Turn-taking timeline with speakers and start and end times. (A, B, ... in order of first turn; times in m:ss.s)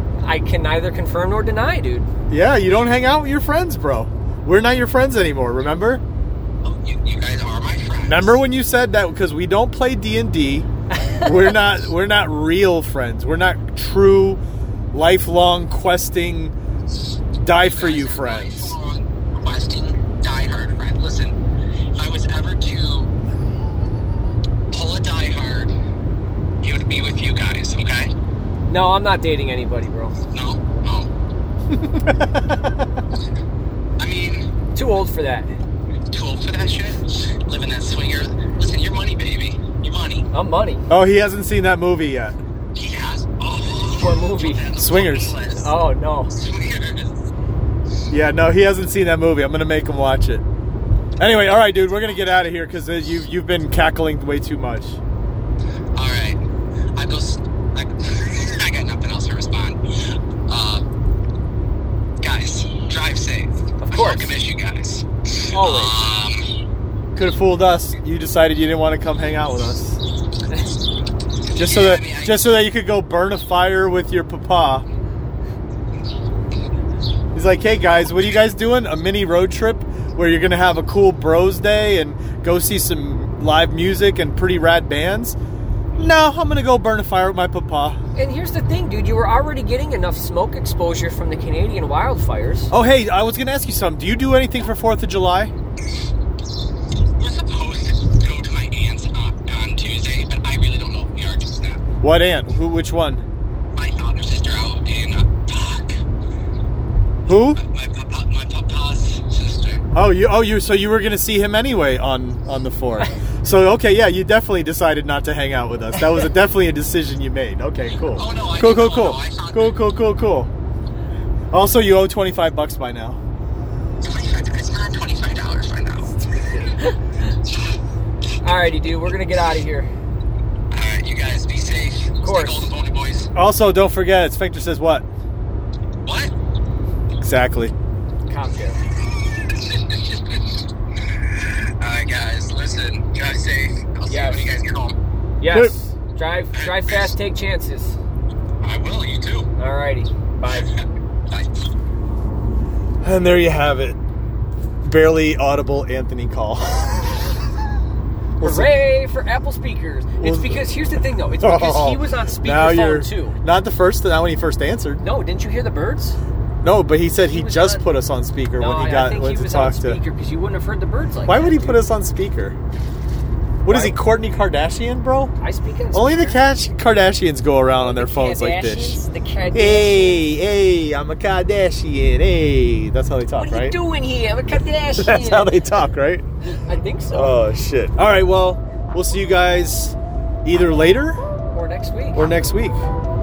0:00.2-0:02.1 A
0:02.3-0:06.0 B
0:06.6-0:08.4 C
0:08.0-0:14.4 B
0:14.9-0:16.5 B
0:17.4-0:18.7 B
0:17.6-0:21.4 C
0:21.9-0:23.1 C
0:24.7-0:25.7 C
0:26.6-0:28.1 C
0:28.7-0:30.2 A
0:30.3-0:31.1 C
0:31.8-0:32.4 B
0:34.0-0:34.5 C
0:34.7-0:35.5 A
0:36.1-0:40.3 C
0:40.3-0:40.8 A
0:40.9-0:42.4 B
0:42.7-0:45.7 C
0:43.9-0:44.7 A
0:44.8-0:45.4 B
0:45.6-0:46.3 A
0:46.3-0:47.1 C
0:48.1-0:50.4 B
0:51.2-0:55.0 B
0:55.9-0:56.4 C
0:56.9-1:00.8 C
1:02.2-1:06.5 C
1:03.8-1:04.3 A
1:05.5-1:06.0 A
1:07.2-1:10.0 B
1:11.5-1:12.5 C
1:11.5-1:14.8 B
1:17.3-1:25.4 B
1:26.0-1:28.0 B
1:28.2-1:32.7 A
1:32.7-1:35.5 B
1:37.2-1:41.8 C
1:42.0-1:43.2 B
1:43.7-1:46.0 C
1:47.2-1:47.6 B
1:47.6-1:49.8 C
1:49.9-2:00.5 B
1:58.1-1:59.7 C
2:01.5-2:03.2 B
2:04.0-2:06.1 C
2:08.4-2:09.9 A
2:10.7-2:13.3 C
2:12.2-2:12.7 A
2:13.3-2:15.1 B
2:16.0-2:16.3 C
2:17.2-2:17.7 B
2:18.3-2:18.8 A
2:18.9-2:20.7 C
2:21.3-2:25.0 C
2:24.1-2:24.5 A
2:25.4-2:28.0 A
2:26.5-2:27.1 C
2:28.6-2:29.5 C
2:29.6-2:30.7 A
2:30.5-2:31.5 C
2:33.0-2:34.0 B
2:34.8-2:37.3 B
2:38.4-2:38.8 B
2:38.4-2:43.4 A
2:40.2-2:40.7 B
2:41.4-2:45.0 B
2:45.0-2:46.2 A
2:46.6-2:50.0 B
2:47.3-2:47.8 A
2:48.6-2:51.8 A
2:51.2-2:52.6 B
2:53.6-2:55.3 B
2:53.7-2:54.0 A
2:55.4-2:56.4 A
2:55.9-2:59.0 B
2:57.8-3:00.2 A
2:59.5-3:03.8 B
3:03.4-3:05.6 A
3:05.0-3:06.2 B
3:06.4-3:07.4 A
3:07.1-3:11.2 B
3:11.5-3:12.3 A
3:12.1-3:12.8 B